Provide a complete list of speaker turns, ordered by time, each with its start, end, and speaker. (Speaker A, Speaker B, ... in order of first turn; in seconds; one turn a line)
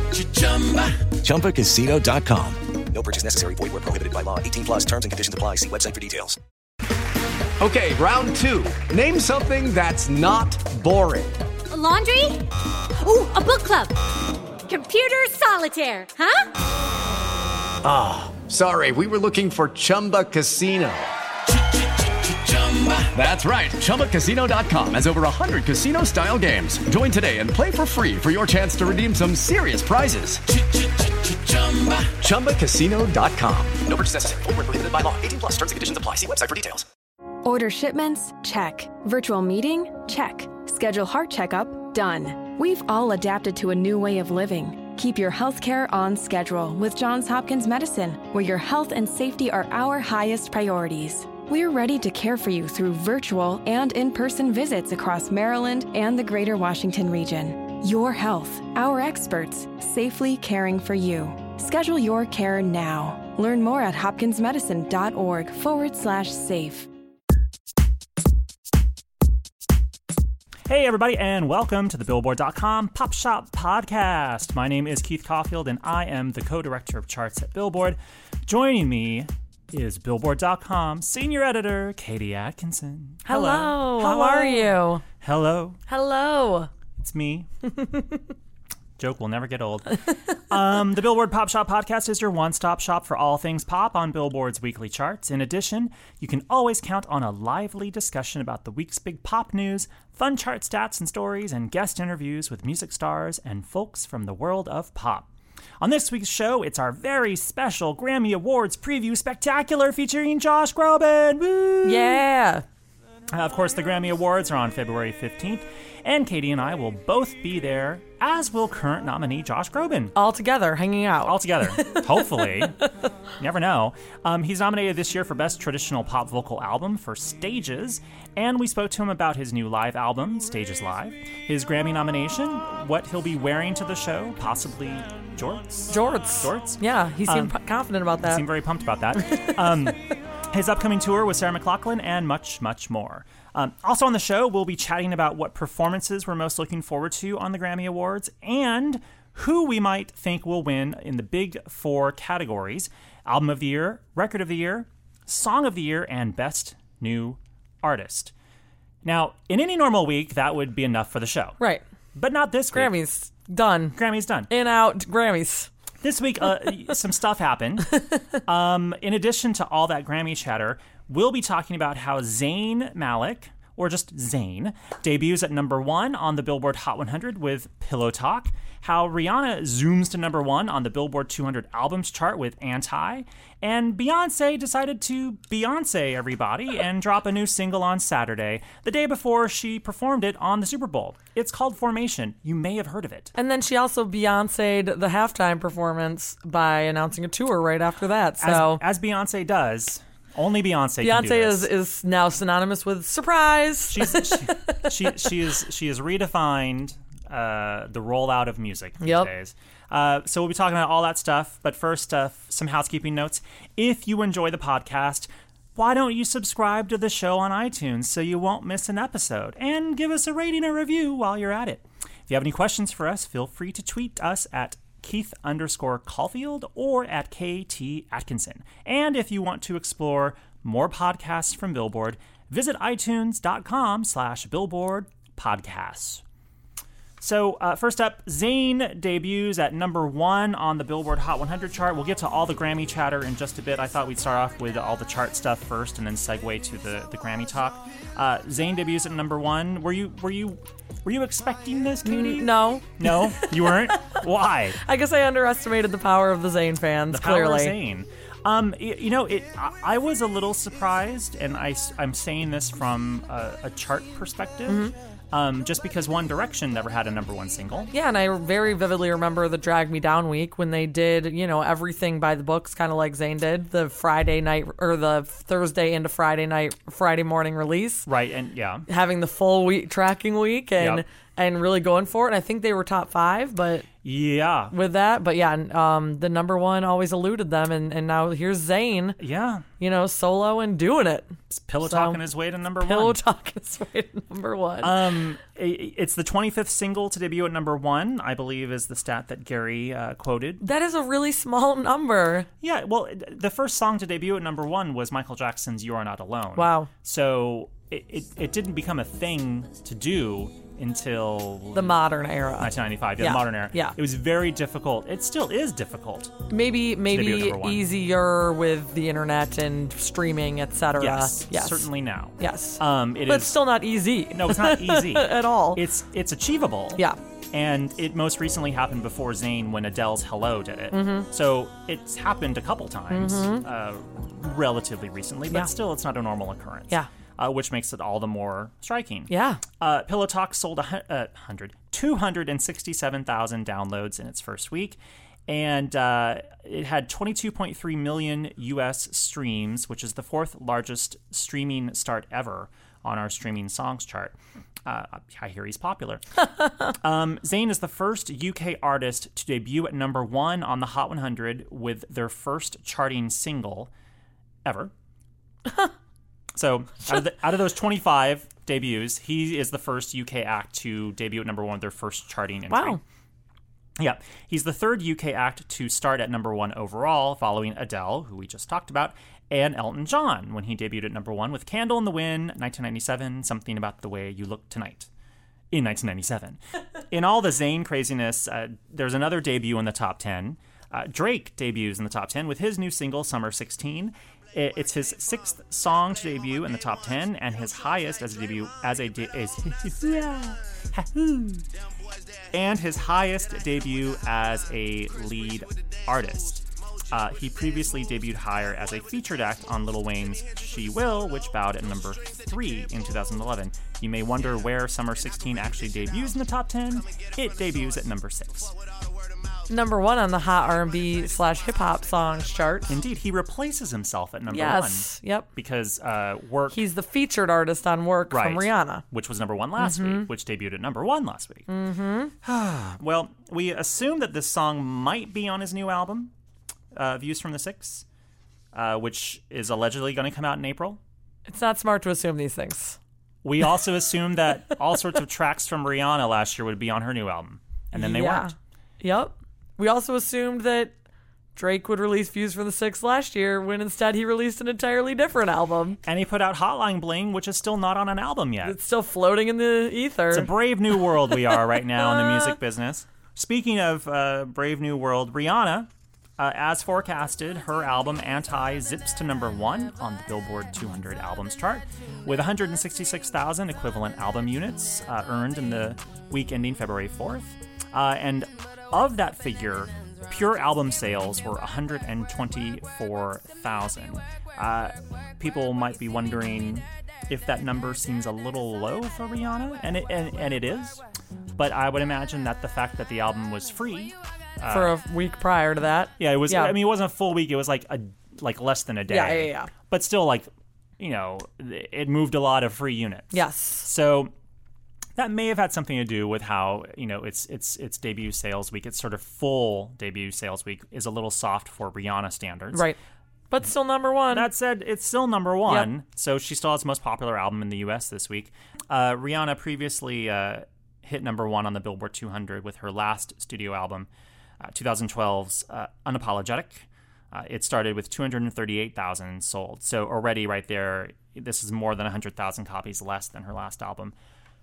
Speaker A: 0.4-0.8
Speaker B: 1.1-6.3
Speaker A: 7.6-11.4
Speaker C: 11.7-13.9
Speaker C: 14.7-16.5
Speaker A: 17.8-21.1
Speaker A: 22.5-30.4
Speaker A: 31.3-36.8
Speaker D: 37.4-66.9
Speaker E: 70.7-85.8
Speaker F: 83.2-85.0
Speaker F: 85.9-86.7
Speaker E: 87.0-87.5
Speaker F: 87.8-88.2
Speaker E: 89.0-105.3
Speaker E: 105.8-112.2
Speaker F: 111.8-112.6
Speaker E: 113.3-120.1
Speaker F: 120.1-122.7
Speaker E: 121.2-122.8
Speaker E: 123.4-137.5
Speaker F: 135.9-138.4
Speaker E: 138.2-158.3
Speaker F: 139.2-139.9
Speaker E: 159.0-161.6
Speaker E: 162.1-162.9
Speaker F: 162.7-163.9
Speaker E: 163.9-164.5
Speaker F: 164.5-165.7
Speaker E: 166.0-193.3
Speaker F: 193.3-198.8
Speaker E: 198.4-201.7
Speaker F: 201.0-205.3
Speaker E: 203.9-236.2
Speaker F: 209.0-209.3
Speaker E: 237.2-254.8
Speaker F: 252.0-254.2
Speaker F: 254.8-257.7
Speaker E: 257.1-267.9
Speaker F: 264.7-264.9
Speaker F: 267.9-278.1
Speaker E: 278.1-278.9
Speaker F: 278.9-283.9
Speaker E: 280.8-281.0
Speaker E: 284.0-284.7
Speaker F: 284.7-289.2
Speaker E: 289.2-289.6
Speaker F: 289.8-292.2
Speaker E: 291.5-293.2
Speaker F: 292.8-295.0
Speaker E: 294.8-300.6
Speaker F: 300.6-302.5
Speaker E: 302.6-312.0
Speaker F: 306.6-306.9
Speaker F: 311.7-313.9
Speaker E: 312.6-316.4
Speaker F: 316.5-321.9
Speaker E: 317.0-317.8
Speaker E: 321.0-323.6
Speaker F: 322.4-325.8
Speaker E: 324.3-354.3
Speaker F: 330.9-331.3
Speaker F: 333.1-333.6
Speaker F: 339.3-339.6
Speaker E: 354.9-363.9
Speaker E: 364.6-364.9
Speaker E: 366.5-373.0
Speaker F: 372.7-373.0
Speaker E: 374.0-385.1
Speaker E: 385.7-386.6
Speaker E: 387.1-401.6
Speaker E: 402.5-418.7
Speaker F: 419.7-422.9
Speaker E: 422.9-426.8
Speaker F: 424.5-425.5
Speaker F: 426.7-429.0
Speaker E: 428.3-431.7
Speaker F: 429.8-430.3
Speaker F: 431.7-432.3
Speaker E: 432.4-436.3
Speaker E: 436.9-438.0
Speaker E: 438.7-441.0
Speaker F: 441.5-443.0
Speaker E: 443.4-448.5
Speaker F: 447.9-450.9
Speaker F: 451.6-456.0
Speaker E: 456.0-458.8
Speaker F: 458.6-460.5
Speaker E: 460.3-491.0
Speaker F: 462.1-462.5
Speaker E: 491.6-494.9
Speaker F: 494.7-496.8
Speaker E: 496.2-504.3
Speaker F: 499.1-499.7
Speaker F: 503.3-503.9
Speaker E: 505.1-512.9
Speaker F: 512.7-513.0
Speaker F: 513.5-514.5
Speaker E: 514.3-524.1
Speaker E: 524.6-534.1